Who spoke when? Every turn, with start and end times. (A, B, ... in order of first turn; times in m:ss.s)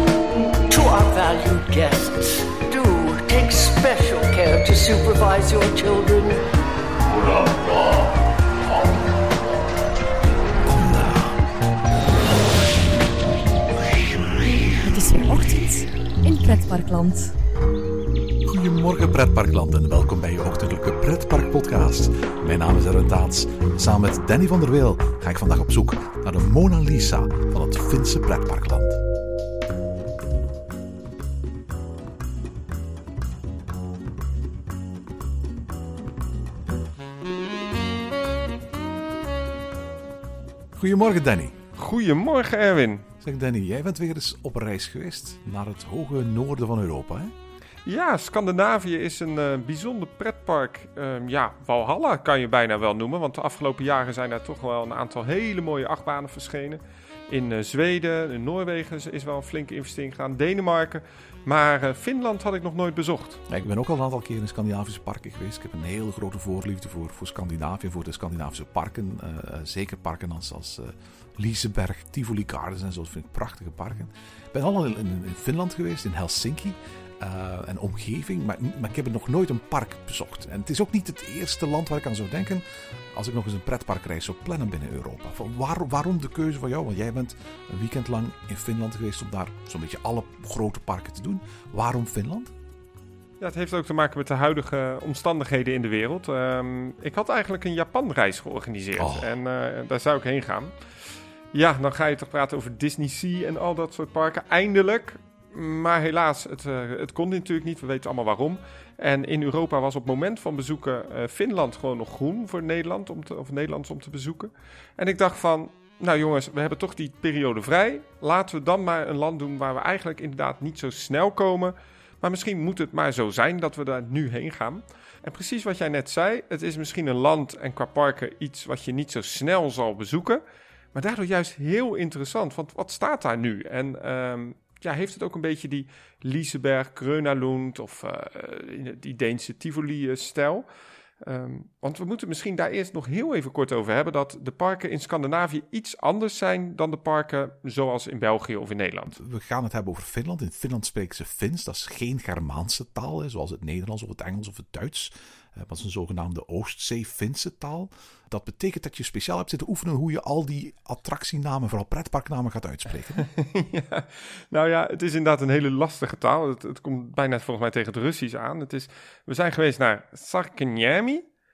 0:00.7-0:06.4 A
0:10.7-0:11.2 B
0:14.6-0:17.3 C
0:18.4-0:29.0 B
0:40.8-0:41.6 B
0:41.8-0:43.1 D
0:43.2-0:47.3 B
0:47.8-1:03.4 D
1:03.5-1:32.5 B
1:33.4-1:40.7 D
1:39.0-1:39.3 B
1:41.5-2:10.4 D
2:10.9-2:20.7 D
2:21.2-2:29.2 D
2:29.1-2:43.3 B
2:43.2-2:51.2 D